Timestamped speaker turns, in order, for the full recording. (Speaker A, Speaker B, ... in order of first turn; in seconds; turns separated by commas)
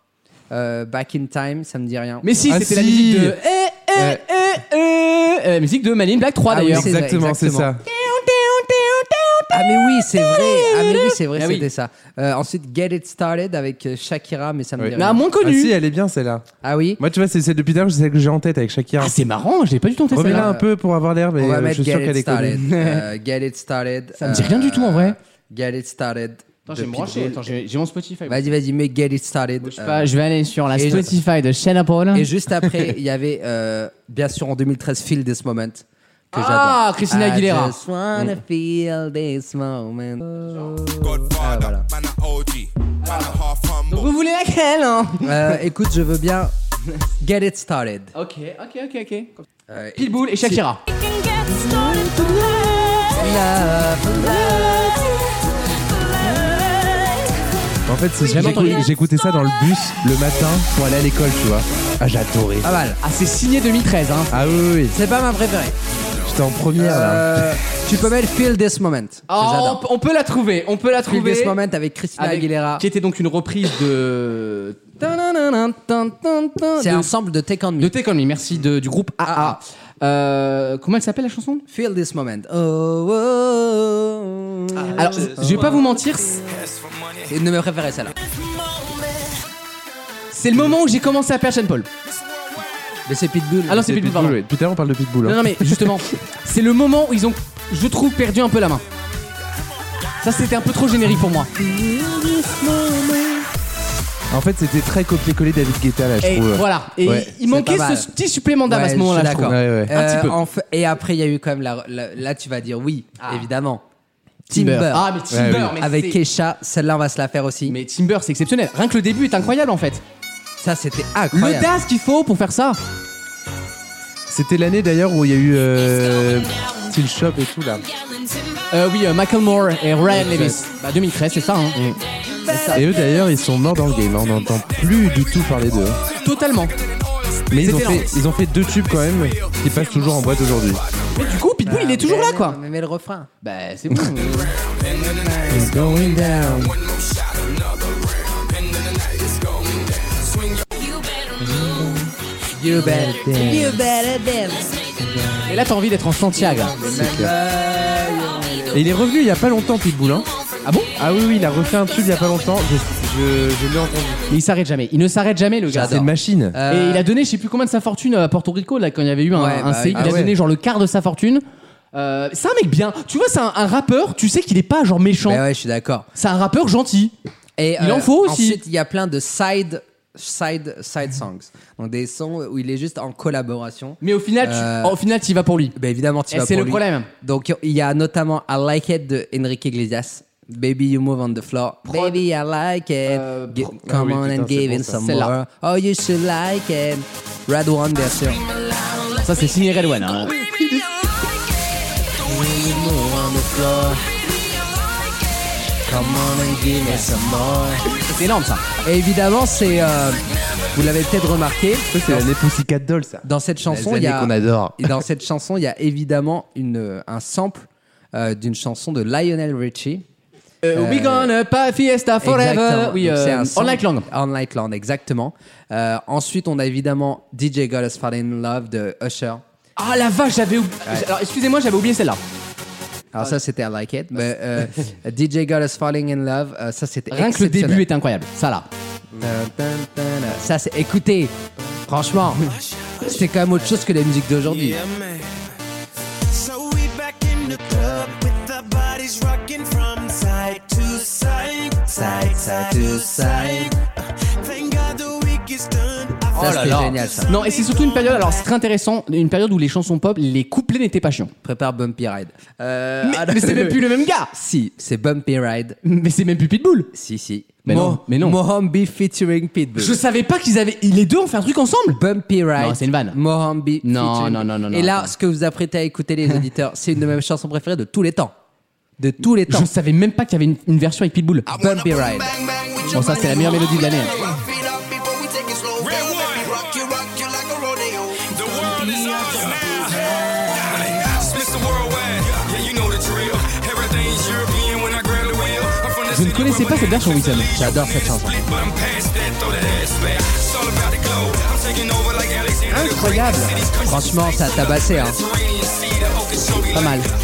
Speaker A: 0.5-2.3, Speaker B: 2.2-6.9, Speaker C: 2.5-3.4, Speaker C: 4.0-4.2, Speaker A: 6.5-7.7, Speaker C: 6.7-7.8, Speaker B: 7.9-11.7, Speaker A: 9.5-15.2, Speaker C: 14.8-16.4, Speaker B: 15.0-15.8, Speaker A: 16.6-17.0, Speaker C: 17.0-19.2, Speaker B: 19.0-20.5, Speaker C: 20.1-22.6, Speaker A: 20.1-20.7, Speaker A: 21.4-27.4, Speaker B: 22.6-23.1, Speaker B: 24.2-25.2, Speaker B: 26.7-28.5, Speaker A: 28.3-30.1, Speaker B: 29.6-32.3, Speaker A: 30.7-31.2, Speaker A: 32.1-41.9, Speaker B: 36.3-37.8, Speaker B: 43.0-45.6, Speaker A: 45.2-46.5, Speaker A: 47.2-48.1, Speaker B: 48.1-49.3, Speaker A: 49.7-50.6, Speaker B: 50.0-50.8, Speaker D: 50.9-53.3, Speaker B: 52.1-52.4, Speaker A: 53.2-55.0, Speaker D: 54.4-54.9, Speaker D: 55.9-57.2, Speaker C: 57.9-62.7, Speaker B: 58.2-58.9, Speaker A: 58.4-58.7, Speaker A: 62.6-63.0, Speaker B: 63.0-64.4, Speaker C: 64.3-65.0, Speaker A: 64.9-65.8, Speaker C: 66.2-67.6, Speaker A: 66.8-69.8, Speaker B: 69.3-71.6, Speaker A: 71.0-72.8, Speaker B: 72.2-77.1, Speaker A: 76.8-77.9, Speaker B: 77.8-81.7, Speaker A: 79.2-79.6, Speaker A: 81.7-85.9, Speaker B: 84.9-86.4, Speaker A: 87.3-88.1, Speaker B: 90.3-91.9, Speaker A: 93.1-93.9, Speaker B: 93.7-94.4, Speaker C: 93.8-96.0, Speaker B: 95.2-98.8, Speaker B: 100.2-101.5, Speaker C: 101.6-103.5, Speaker C: 104.3-107.3, Speaker B: 106.2-110.4, Speaker A: 107.4-108.1, Speaker A: 108.7-113.8, Speaker C: 109.5-109.9, Speaker B: 113.2-113.5, Speaker B: 114.5-116.2, Speaker A: 114.5-117.8, Speaker C: 115.3-115.8, Speaker B: 117.7-120.0, Speaker A: 120.6-121.7, Speaker B: 121.3-122.8, Speaker C: 124.3-127.8, Speaker D: 127.9-128.6, Speaker B: 128.7-131.8, Speaker C: 130.1-130.6, Speaker B: 132.5-132.8, Speaker A: 132.5-132.9, Speaker C: 132.7-136.0, Speaker B: 136.1-136.8, Speaker C: 137.5-140.9, Speaker B: 137.6-138.1, Speaker B: 141.1-142.6, Speaker A: 141.6-143.3, Speaker B: 143.4-144.6, Speaker A: 144.8-146.8, Speaker C: 145.5-146.6, Speaker D: 150.8-152.0, Speaker A: 152.5-155.5, Speaker D: 154.5-154.8, Speaker B: 155.5-156.8, Speaker A: 156.4-158.9, Speaker C: 156.8-157.3, Speaker C: 158.7-160.3, Speaker B: 160.6-160.9, Speaker C: 161.0-164.2, Speaker D: 161.5-162.2, Speaker B: 164.3-166.1, Speaker A: 165.7-167.1, Speaker C: 165.7-166.6, Speaker B: 166.7-175.4, Speaker A: 169.3-170.3, Speaker C: 169.9-170.3, Speaker A: 175.3-176.1, Speaker B: 176.2-177.1, Speaker A: 177.6-185.0, Speaker B: 177.8-178.6, Speaker B: 184.0-185.8, Speaker A: 185.8-198.4, Speaker B: 186.3-187.1, Speaker B: 191.9-192.2, Speaker B: 193.1-193.7, Speaker C: 193.8-195.0, Speaker B: 194.9-195.3, Speaker D: 198.4-199.7, Speaker B: 199.2-200.4, Speaker D: 200.3-201.3, Speaker D: 202.2-202.7, Speaker A: 202.2-204.0, Speaker D: 204.1-205.2, Speaker A: 205.9-207.9, Speaker D: 206.3-206.6, Speaker B: 206.8-207.1, Speaker B: 208.0-208.7, Speaker A: 208.8-212.3, Speaker C: 211.9-214.9, Speaker A: 213.2-220.0, Speaker B: 220.6-224.1, Speaker A: 220.7-221.3, Speaker A: 222.2-229.4, Speaker B: 229.8-232.2, Speaker A: 233.1-237.9, Speaker B: 237.1-238.7, Speaker A: 239.1-241.3, Speaker A: 241.9-242.5, Speaker A: 243.0-244.8, Speaker D: 246.4-247.4, Speaker A: 247.4-248.1, Speaker D: 248.2-251.8, Speaker A: 251.9-253.8, Speaker D: 254.5-256.3, Speaker B: 256.3-261.3, Speaker A: 256.4-257.4, Speaker A: 261.4-265.8, Speaker B: 263.0-264.3, Speaker B: 265.8-266.9, Speaker A: 266.9-270.0, Speaker B: 267.6-268.4, Speaker B: 269.8-272.0, Speaker A: 271.9-278.3, Speaker B: 272.6-273.2, Speaker B: 273.8-275.1, Speaker A: 279.0-279.7, Speaker B: 279.5-281.5, Speaker A: 281.6-282.4, Speaker D: 282.4-287.5, Speaker B: 282.9-284.2, Speaker A: 282.9-283.4, Speaker D: 288.1-291.6, Speaker B: 296.1-297.6, Speaker A: 297.5-298.6, Speaker B: 302.7-303.7, Speaker A: 303.8-305.2, Speaker D: 306.1-306.5, Speaker B: 306.6-307.1